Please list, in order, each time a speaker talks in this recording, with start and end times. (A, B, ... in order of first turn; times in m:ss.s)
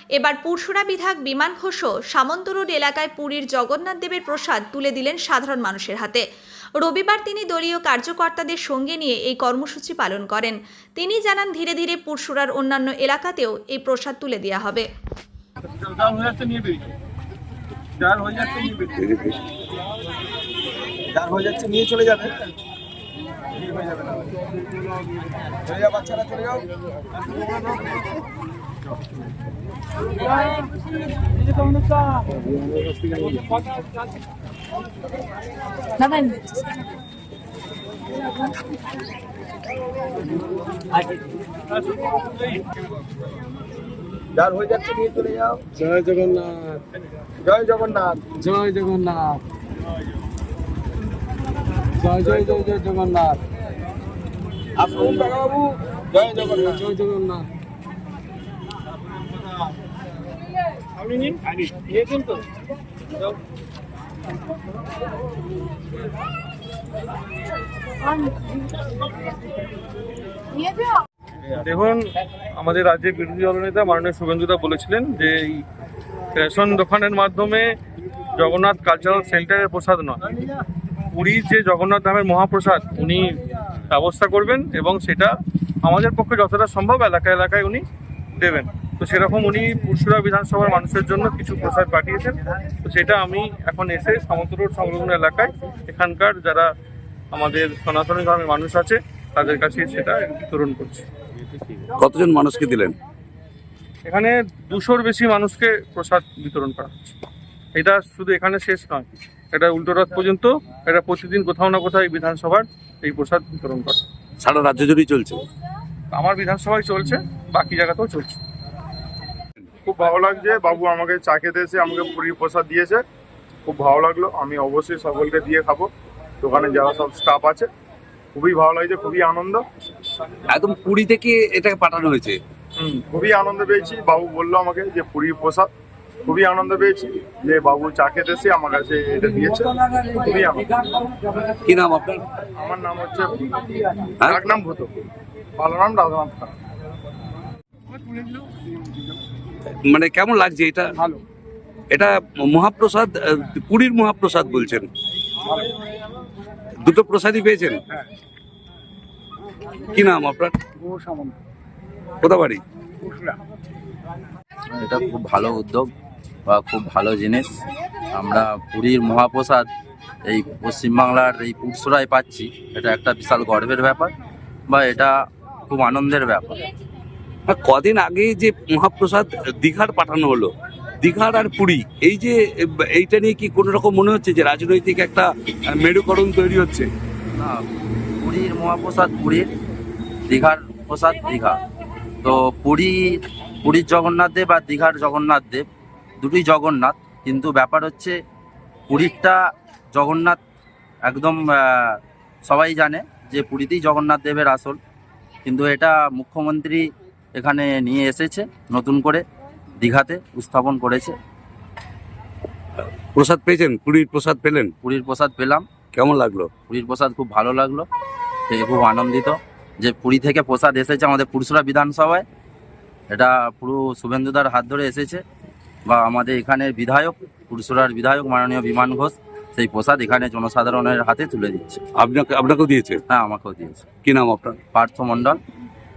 0:00.2-0:06.2 A
0:06.8-0:14.9 A
0:15.9-0:16.7 B
0:18.0-0:18.8 B
0:19.0-0:19.3 C
0:21.1-0:22.3 B
0:23.6-0:24.2 B
0:25.7-0:26.6 B
0:44.4-0:45.6 B
0:45.8-0:46.8 D
0:47.4-0:48.2 B
0:48.3-0:49.4 D
0:52.0-0:53.4 D
0:54.8-0:56.8 B
0:56.7-0:57.5 D
1:01.0-1:01.4 E
1:02.0-1:02.3 E
1:11.6-1:15.6 E
1:16.3-1:17.8 E
1:18.4-1:20.2 E
1:21.1-1:25.3 E
1:25.8-1:27.8 E
1:28.4-1:36.7 E
1:37.3-1:41.0 E
1:42.0-1:42.9 C
1:44.0-1:47.1 E
1:47.7-1:54.0 E
1:54.4-1:55.4 C
1:56.1-1:58.4 E
1:59.8-2:03.0 F
2:03.7-2:05.9 F
2:06.4-2:07.7 F
2:08.3-2:09.6 F
2:10.5-2:12.4 C
2:12.8-2:15.7 F
2:16.2-2:20.8 F
2:21.3-2:22.2 C
2:22.6-2:24.9 F
2:25.6-2:26.5 F
2:29.9-2:30.9 C
2:31.9-2:34.9 C
2:36.8-2:37.8 C
2:39.9-2:40.5 C
2:42.2-2:42.6 C
2:44.7-2:45.9 G
2:46.5-2:47.6 G
2:48.1-2:49.7 G
2:50.3-2:54.1 G
2:54.7-2:55.2 G
2:55.7-2:56.6 G
2:57.5-3:00.5 C
3:01.0-3:06.9 C
3:07.4-3:07.6 G
3:08.2-3:09.5 G
3:10.3-3:11.6 G
3:12.2-3:15.7 G
3:16.2-3:18.2 G
3:18.9-3:19.4 G
3:19.9-3:20.4 G
3:21.0-3:24.8 G
3:25.4-3:29.2 G
3:29.8-3:31.2 G
3:33.1-3:34.7 C
3:34.8-3:35.7 G
3:35.9-3:36.5 C
3:36.7-3:37.9 G
3:38.5-3:42.2 G
3:43.1-3:45.2 G
3:45.9-3:51.8 G
3:52.0-3:53.0 C
3:53.1-3:53.8 G
3:54.0-3:54.6 C
3:54.7-3:55.4 G